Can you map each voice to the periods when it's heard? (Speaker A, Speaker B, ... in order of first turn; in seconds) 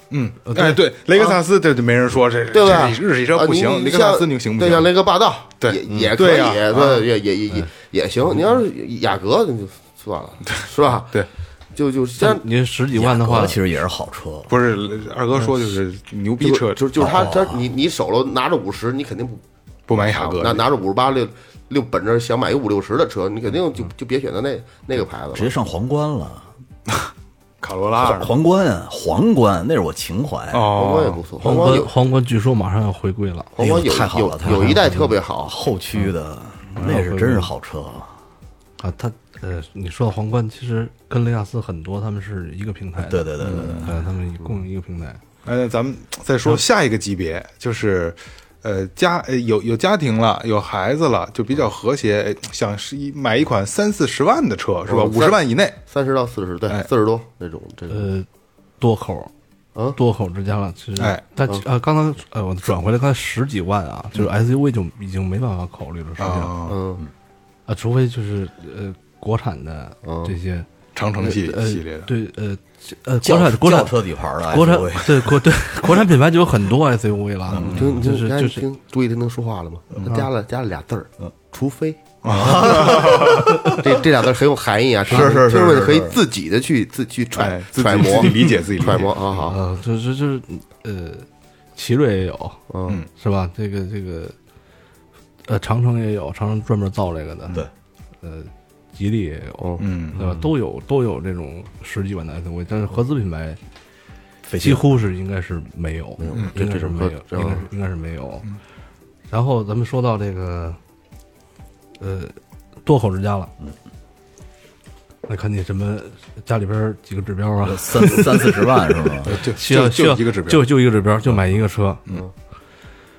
Speaker A: 0.1-4.9, 5.6-7.1, 10.5-11.3, 14.5-17.1, 19.9-20.7, 27.6-28.3, 30.5-31.2, 43.4-44.0, 45.5-55.8, 61.0-61.2, 66.2-66.8, 71.0-72.1, 77.6-78.0, 82.2-83.7, 87.3-89.5, 99.8-100.2, 119.2-120.7
Speaker B: 0.5-0.8, 12.2-13.6, 31.4-33.6, 34.4-35.2, 36.8-37.5, 38.8-45.2, 57.9-58.3, 58.8-59.3, 60.0-66.6, 67.7-70.7, 71.2-74.0, 74.5-78.7, 89.5-92.6, 93.2-94.3, 95.5-97.6, 98.2-103.6, 104.6-108.5, 109.3-110.8, 112.0-113.5, 115.3-122.0
Speaker C: 2.5-11.1, 11.8-12.4, 16.4-19.4, 19.9-25.5, 30.7-31.9, 33.5-35.5, 54.9-58.1, 66.7-67.0, 70.0-70.3, 77.7-82.0, 82.6-83.1, 83.7-89.6, 92.7-93.0, 99.6-99.9, 106.2-107.7
Speaker D: 12.9-14.5, 17.0-17.6, 25.3-26.5, 28.0-30.7, 33.6-38.1, 43.0-44.0, 73.2-75.4, 77.5-77.9, 82.3-84.0, 85.1-86.2, 104.5-104.9, 117.6-119.4